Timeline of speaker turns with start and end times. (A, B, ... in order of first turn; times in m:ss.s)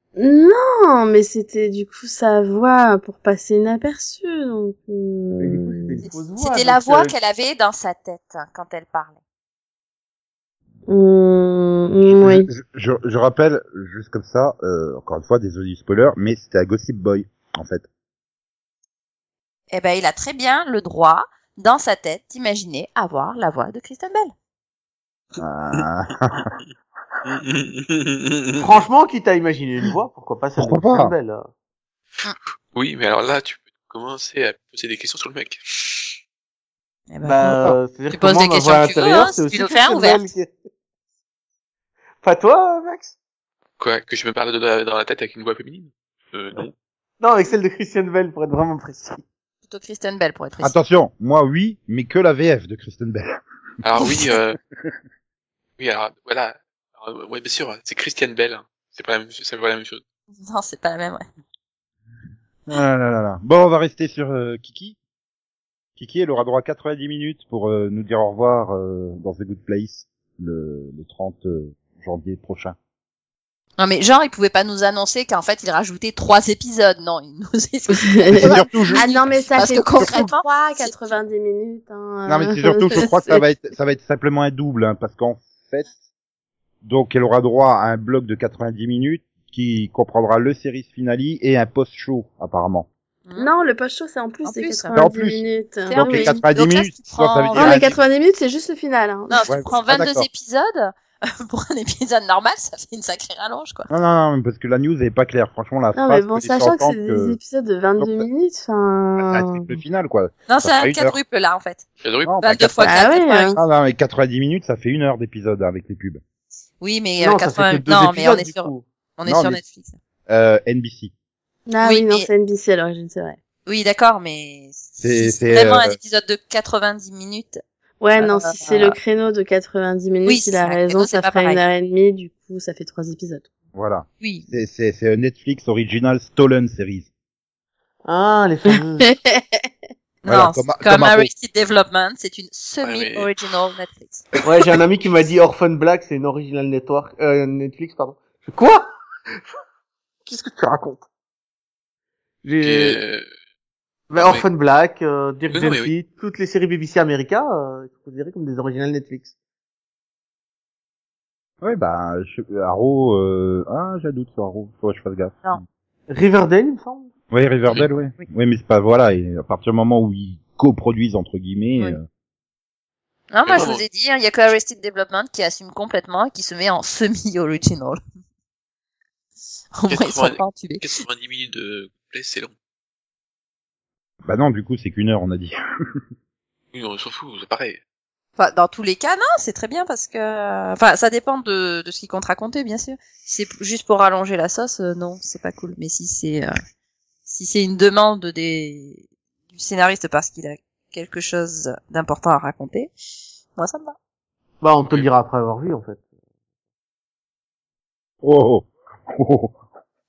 0:00.2-0:06.0 A
0:05.4-0:07.1 B
0:06.0-0:09.2 C
0:10.9-0:12.5 A
0:12.0-0:17.8 D
0:19.7-0:24.3 C
0:25.4-0:26.5 D
0:27.2-0:28.6 E
0:28.6-0:31.5 B
0:30.6-0:31.1 D
0:32.7-0:36.1 E
0:37.1-0:40.3 C
0:37.2-0:40.5 B
0:42.2-0:43.1 B
0:43.8-0:46.7 E
0:47.2-0:49.2 B
0:49.6-0:50.8 C
0:50.6-0:53.4 D
0:53.8-0:54.6 E
0:55.8-1:00.0 E
1:00.4-1:01.2 C
1:02.7-1:05.0 D
1:06.0-1:12.8 D
1:13.8-1:21.1 C
1:17.9-1:23.4 A
1:18.4-1:20.3 D
1:22.3-1:25.9 D
1:26.8-1:32.9 D
1:33.4-1:36.4 A
1:34.4-1:34.9 C
1:34.9-1:38.0 D
1:35.9-1:37.9 C
1:37.6-1:39.4 A
1:39.3-1:43.9 C
1:39.5-1:40.3 D
1:43.9-1:47.4 D
1:46.0-1:49.6 A
1:48.0-1:48.3 D
1:49.2-1:51.2 D
1:50.5-1:51.8 C
1:52.0-1:52.4 E
1:52.2-1:52.9 D
1:52.4-1:53.6 C
1:52.8-1:53.6 A
1:53.6-1:56.2 D
1:56.8-2:00.0 C
1:57.2-1:58.8 B
1:59.2-1:59.6 D
2:00.3-2:01.1 D
2:01.7-2:03.4 A
2:01.8-2:02.3 C
2:03.7-2:07.6 C
2:05.0-2:06.0 D
2:08.0-2:13.4 A
2:08.2-2:09.0 C
2:10.2-2:11.6 C
2:13.7-2:17.1 D
2:14.2-2:14.5 C
2:18.0-2:19.1 B
2:19.1-2:19.7 A
2:20.2-2:24.2 C
2:20.3-2:21.3 D
2:22.8-2:23.3 E
2:24.4-2:29.4 B
2:30.2-2:31.0 B
2:32.4-2:33.0 B
2:32.6-2:33.3 E
2:34.1-2:39.3 B
2:34.2-2:34.5 E
2:35.5-2:35.9 E
2:41.6-2:45.5 D
2:46.1-2:47.1 B
2:47.3-2:52.0 D
2:53.3-2:58.0 C
2:53.5-2:53.8 E
2:59.8-3:00.9 C
2:59.9-3:02.5 E
3:04.2-3:05.6 D
3:06.7-3:07.8 E
3:08.4-3:16.5 C
3:17.3-3:22.9 C
3:23.6-3:24.0 C
3:24.6-3:26.0 B
3:28.2-3:29.6 D